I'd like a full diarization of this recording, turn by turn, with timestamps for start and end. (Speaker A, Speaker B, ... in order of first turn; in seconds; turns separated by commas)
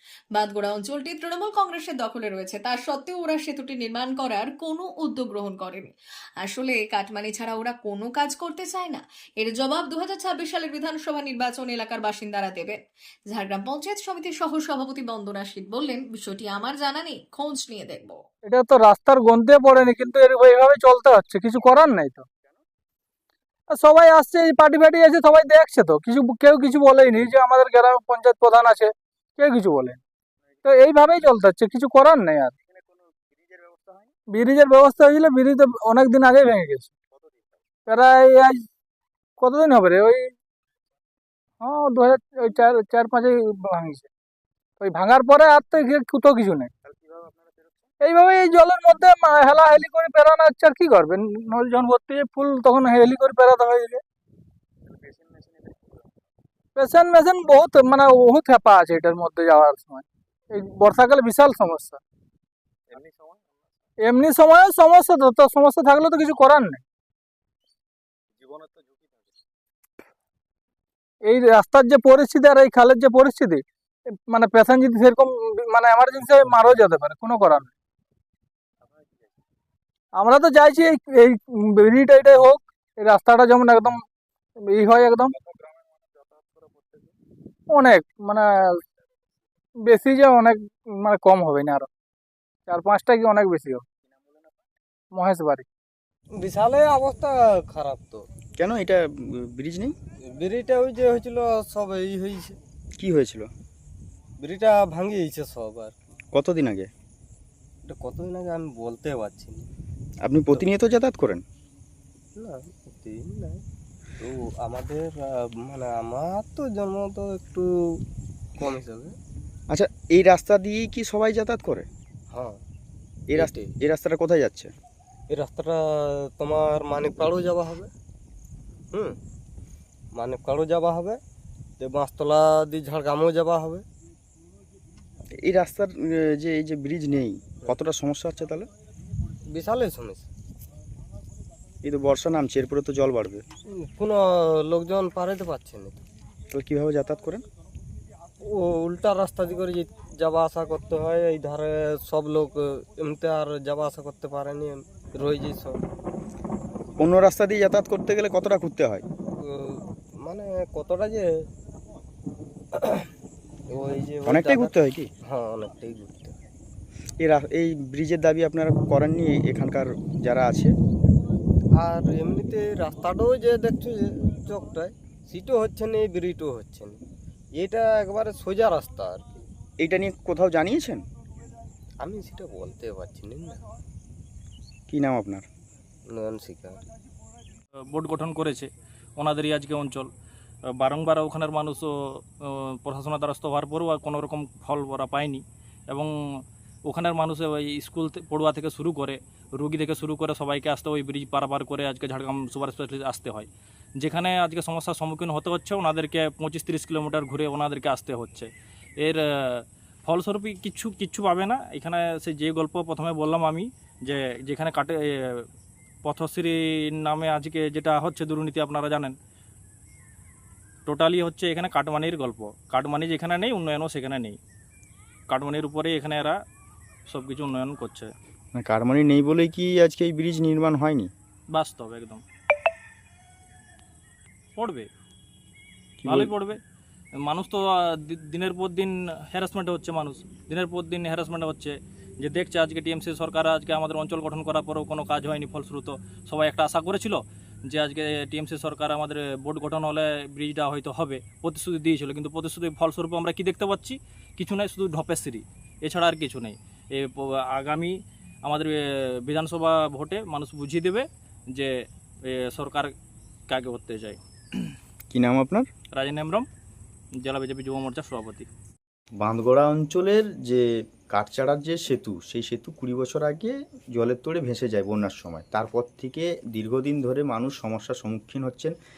Speaker A: 0.3-5.9, Speaker A: 6.4-12.8, Speaker A: 13.3-18.2, Speaker B: 18.4-22.2, Speaker B: 23.7-30.0, Speaker B: 30.6-32.5, Speaker B: 34.3-36.9, Speaker B: 37.9-38.6, Speaker B: 39.4-40.3, Speaker B: 41.6-44.1, Speaker B: 44.8-46.7, Speaker B: 48.0-54.0, Speaker B: 56.8-62.0, Speaker B: 64.0-66.8, Speaker B: 71.2-73.6, Speaker B: 74.3-77.7, Speaker B: 80.1-84.0, Speaker B: 84.6-85.3, Speaker B: 87.7-88.8, Speaker B: 89.8-91.9, Speaker B: 92.7-93.8, Speaker B: 95.1-95.7, Speaker C: 96.4-98.2, Speaker D: 98.6-99.9, Speaker C: 100.2-102.6, Speaker D: 103.0-103.5, Speaker C: 104.4-105.9, Speaker D: 106.3-106.9, Speaker C: 107.8-109.7, Speaker D: 110.2-111.4, Speaker C: 112.3-113.6, Speaker C: 114.2-117.7, Speaker C: 118.6-119.2, Speaker D: 119.7-121.9, Speaker C: 122.3-122.6, Speaker D: 123.3-124.7, Speaker C: 123.3-123.7, Speaker C: 125.3-127.9, Speaker C: 128.9-129.2, Speaker C: 130.1-131.2, Speaker C: 131.8-133.8, Speaker D: 135.4-138.7, Speaker C: 139.5-140.3, Speaker D: 141.8-143.4, Speaker C: 143.8-146.0, Speaker D: 146.5-147.4, Speaker C: 148.4-155.8, Speaker D: 157.0-159.0, Speaker C: 159.4-161.3, Speaker C: 162.7-163.1, Speaker C: 163.7-166.3, Speaker D: 164.3-165.1, Speaker D: 167.2-170.7, Speaker C: 171.8-176.9, Speaker C: 177.6-179.4, Speaker D: 179.8-181.0, Speaker C: 182.0-183.6, Speaker D: 184.9-185.4, Speaker C: 186.1-186.8, Speaker E: 187.9-188.7, Speaker E: 189.2-190.1, Speaker E: 190.8-191.9, Speaker E: 192.4-203.5, Speaker E: 204.0-208.5, Speaker E: 209.0-215.4, Speaker E: 216.0-219.1, Speaker E: 220.8-224.4, Speaker E: 225.3-226.3, Speaker E: 227.1-228.1, Speaker D: 228.6-231.1, Speaker E: 231.5-232.2, Speaker E: 234.6-234.9, Speaker D: 236.0-236.3, Speaker E: 236.1-236.6, Speaker E: 237.2-257.9, Speaker E: 258.4-261.7, Speaker E: 262.3-262.9, Speaker E: 263.5-264.7, Speaker D: 265.1-265.7, Speaker E: 265.9-266.4, Speaker E: 267.2-268.5, Speaker D: 269.2-278.7